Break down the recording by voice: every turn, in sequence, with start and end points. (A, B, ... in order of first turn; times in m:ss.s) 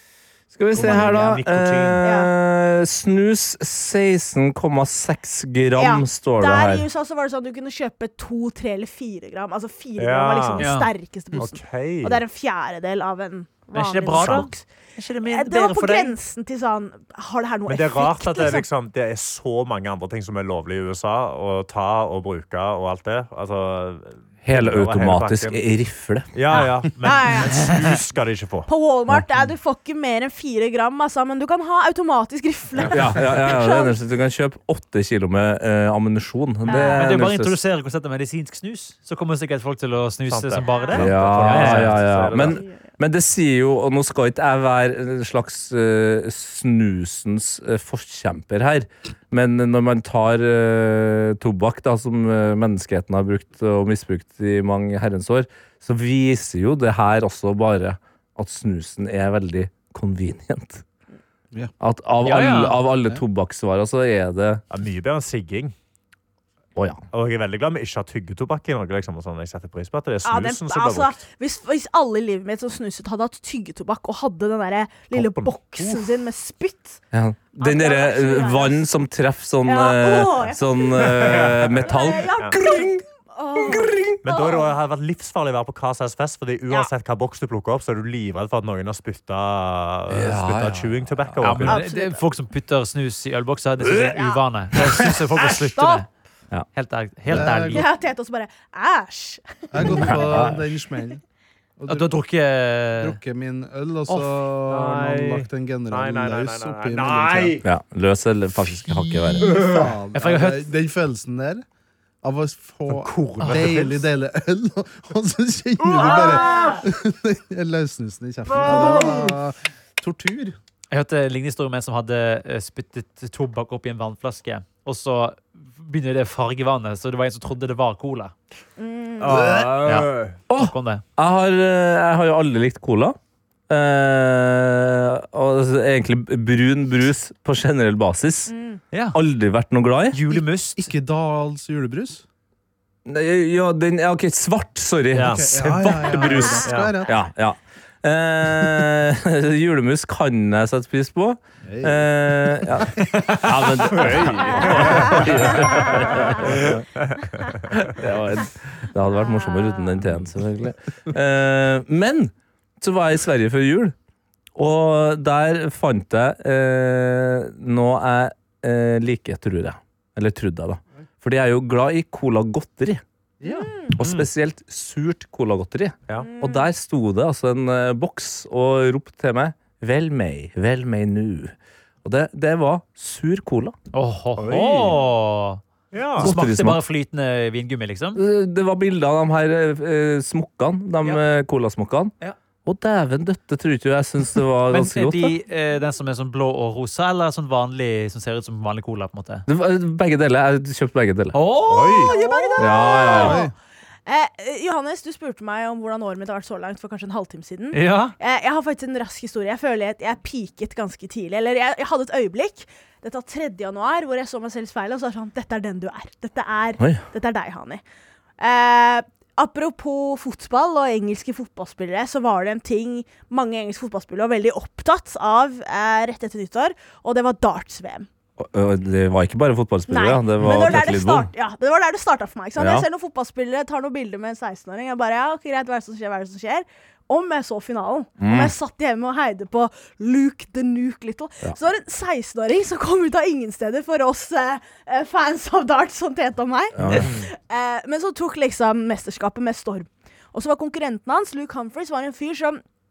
0:00.5-0:06.9 A
0:00.7-0:02.0 B
0:00.8-0:01.4 C
0:02.0-0:02.3 C
0:05.8-0:14.6 C
0:10.0-0:10.7 B
0:10.6-0:10.9 D
0:11.3-0:12.2 B
0:13.7-0:16.2 D
0:14.2-0:14.5 B
0:15.2-0:18.7 C
0:17.7-0:25.6 B
0:24.4-0:26.3 A
0:26.3-0:28.7 B
0:26.5-0:27.8 C
0:28.7-0:34.0 C
0:32.8-0:33.0 B
0:32.9-0:37.6 A
0:36.7-0:37.0 C
0:36.7-0:42.0 D
0:40.3-0:42.6 B
0:40.7-0:41.1 C
0:40.9-1:00.8 A
0:42.3-0:42.8 C
1:01.8-1:04.6 A
1:02.2-1:02.8 D
1:04.7-1:05.7 B
1:06.8-1:07.0 A
1:07.1-1:11.2 B
1:10.2-1:17.0 C
1:15.1-1:16.2 B
1:17.1-1:23.0 A
1:17.6-1:18.8 C
1:19.7-1:24.7 C
1:21.0-1:22.6 B
1:23.6-1:24.2 A
1:24.2-1:31.8 B
1:30.1-1:31.7 A
1:31.4-1:36.1 D
1:31.7-1:32.2 C
1:35.5-1:36.0 C
1:36.7-1:37.9 D
1:37.3-1:37.9 E
1:37.7-1:40.3 C
1:39.7-1:41.2 E
1:39.8-1:40.7 A
1:41.8-1:42.2 E
1:41.9-1:43.2 D
1:43.0-1:47.6 E
1:44.7-1:47.7 B
1:47.6-1:49.6 A
1:49.4-1:51.6 E
1:49.5-1:49.9 B
1:50.1-1:50.7 D
1:52.2-2:00.6 E
1:52.9-1:54.1 B
1:56.0-1:56.8 C
1:58.7-1:59.1 C
2:00.9-2:08.3 D
2:08.8-2:09.6 C
2:09.2-2:10.4 B
2:09.3-2:09.8 E
2:09.8-2:11.0 D
2:10.5-2:13.2 A
2:13.7-2:18.5 A
2:18.5-2:18.8 C
2:18.9-2:19.2 D
2:19.1-2:20.2 A
2:20.1-2:20.9 D
2:20.3-2:22.2 E
2:23.1-2:36.8 A
2:25.2-2:27.0 B
2:25.2-2:27.2 E
2:31.6-2:32.4 E
2:33.1-2:33.4 D
2:33.9-2:37.7 B
2:34.5-2:36.1 C
2:37.7-2:44.0 A
2:39.2-2:39.9 C
2:44.6-2:53.0 A
2:53.4-2:53.7 E
2:53.4-2:53.9 C
2:53.9-3:03.8 A
2:54.0-2:54.3 B
2:56.2-2:56.7 C
3:03.9-3:05.6 D
3:04.4-3:05.0 B
3:05.9-3:06.3 B
3:06.2-3:08.2 D
3:06.2-3:06.8 A
3:08.2-3:12.1 A
3:12.7-3:15.4 A
3:14.7-3:19.5 D
3:19.5-3:21.4 A
3:21.3-3:22.7 D
3:21.7-3:22.1 B
3:21.9-3:23.5 C
3:22.6-3:23.4 A
3:23.2-3:23.5 E
3:24.1-3:37.8 C
3:27.7-3:28.2 D
3:36.8-3:37.0 A
3:38.4-3:48.1 C
3:48.4-3:51.3 A
3:49.9-4:12.6 C
3:52.6-3:52.9 A
3:58.2-3:58.5 A
4:06.8-4:07.1 A
4:06.8-4:07.3 B